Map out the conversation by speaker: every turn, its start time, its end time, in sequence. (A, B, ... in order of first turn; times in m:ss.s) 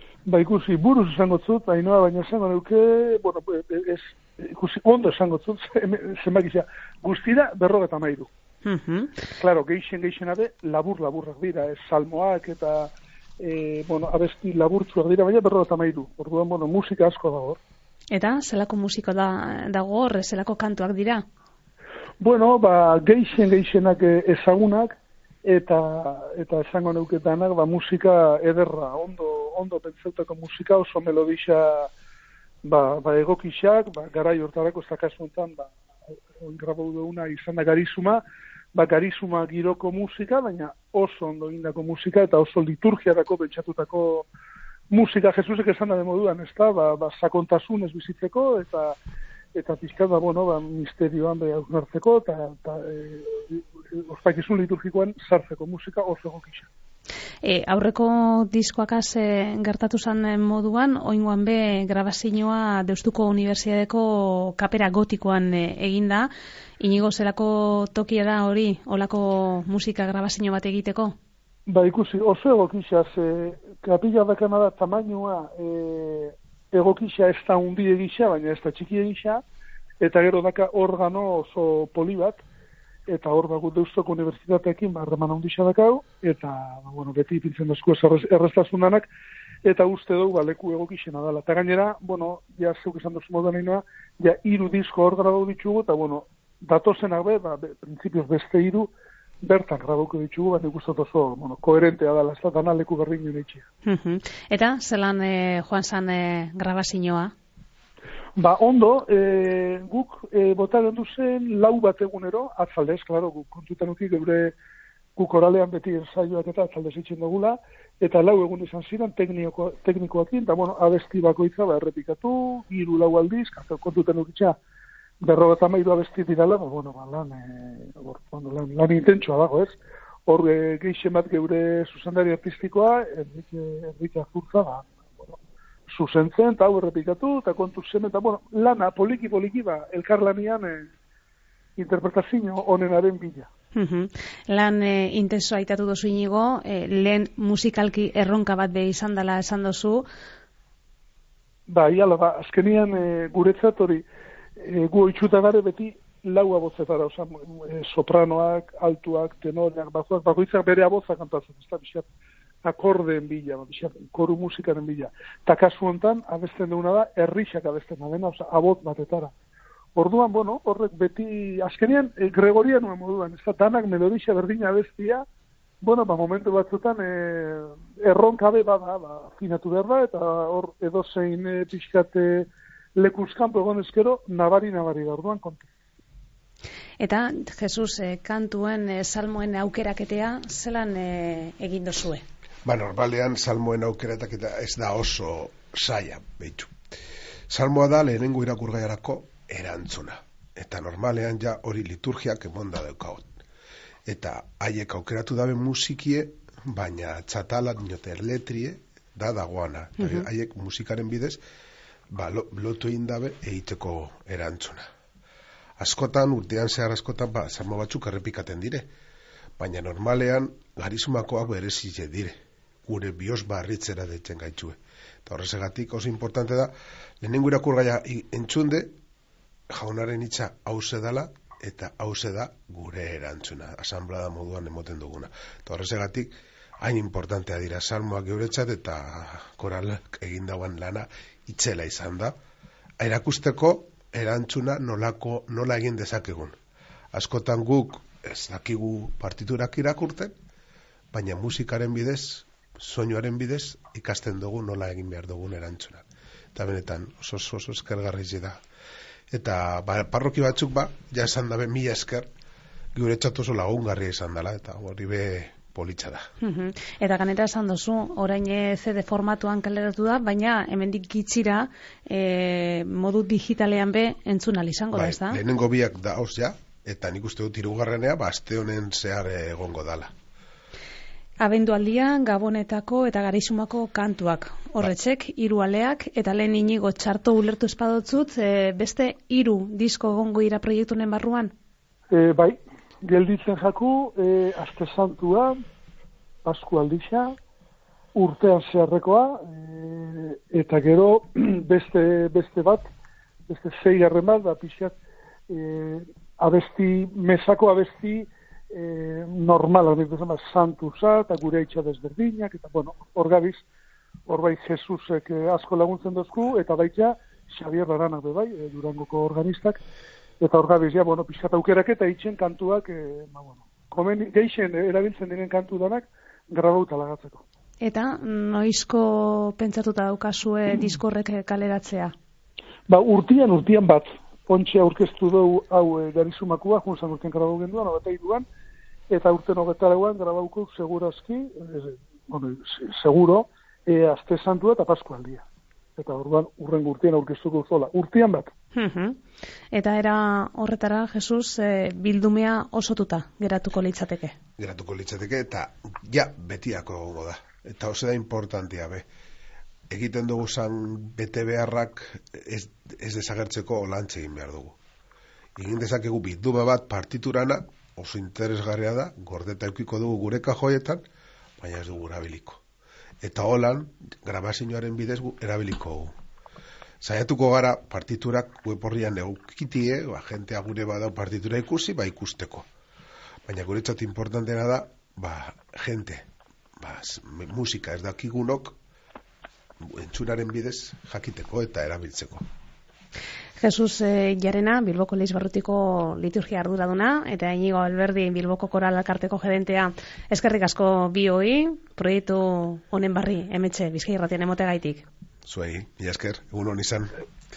0:00.2-0:08.3 A
0:08.6-0:09.2 B
0:09.4-0:17.6 A
0:18.1-0:21.2 B
0:22.2-0:31.9 A
0:32.6-0:35.7 A
0:36.4-0:38.2 A
0:38.7-0:44.3 A
0:44.9-0:49.0 A
0:49.5-0:56.7 A
0:57.4-1:06.3 B
1:06.8-1:11.1 B
1:11.7-1:19.4 A
1:20.0-1:22.4 A
1:23.1-1:29.1 A
1:29.6-1:38.9 A
1:39.4-1:43.6 A
1:43.8-1:47.3 B
1:48.4-1:54.5 A
1:55.2-2:04.6 A
2:05.2-2:20.9 A
2:21.8-2:23.5 A
2:23.7-2:30.0 B
2:31.7-2:34.0 A
2:34.6-2:42.1 A
2:42.6-2:49.3 A
2:49.9-2:55.2 A
2:55.8-3:05.6 A
3:07.0-3:12.2 B
3:12.6-3:16.7 C
3:17.5-3:23.3 C
3:24.1-3:31.4 C
3:30.0-3:30.3 B
3:32.1-3:34.8 C
3:35.8-3:38.9 C
3:39.6-3:48.9 C
3:49.7-4:02.3 C
4:03.0-4:06.5 C
4:07.1-4:10.3 C
4:11.1-4:16.0 C
4:16.5-4:18.6 C
4:19.3-4:22.2 C
4:22.9-4:26.2 C
4:26.4-4:35.4 B
4:34.9-4:40.1 C
4:41.4-4:51.5 B
4:52.1-4:55.6 A
4:56.4-4:57.4 A
4:58.1-5:02.9 A
5:03.5-5:04.9 A
5:05.5-5:13.6 A
5:14.3-5:19.8 A
5:20.4-5:27.4 A
5:27.8-5:32.1 B
5:32.9-5:38.4 A
5:39.1-5:45.4 A
5:46.0-5:48.5 A
5:48.8-5:49.2 B
5:49.7-5:54.4 B
5:54.6-5:59.0 C
5:59.9-6:04.8 C
6:05.6-6:11.0 C
6:11.6-6:12.6 C
6:13.2-6:16.1 C
6:17.0-6:22.7 C
6:23.4-6:26.2 C
6:26.8-6:28.8 C
6:29.8-6:32.4 C
6:33.6-6:45.0 B
6:45.4-6:47.1 C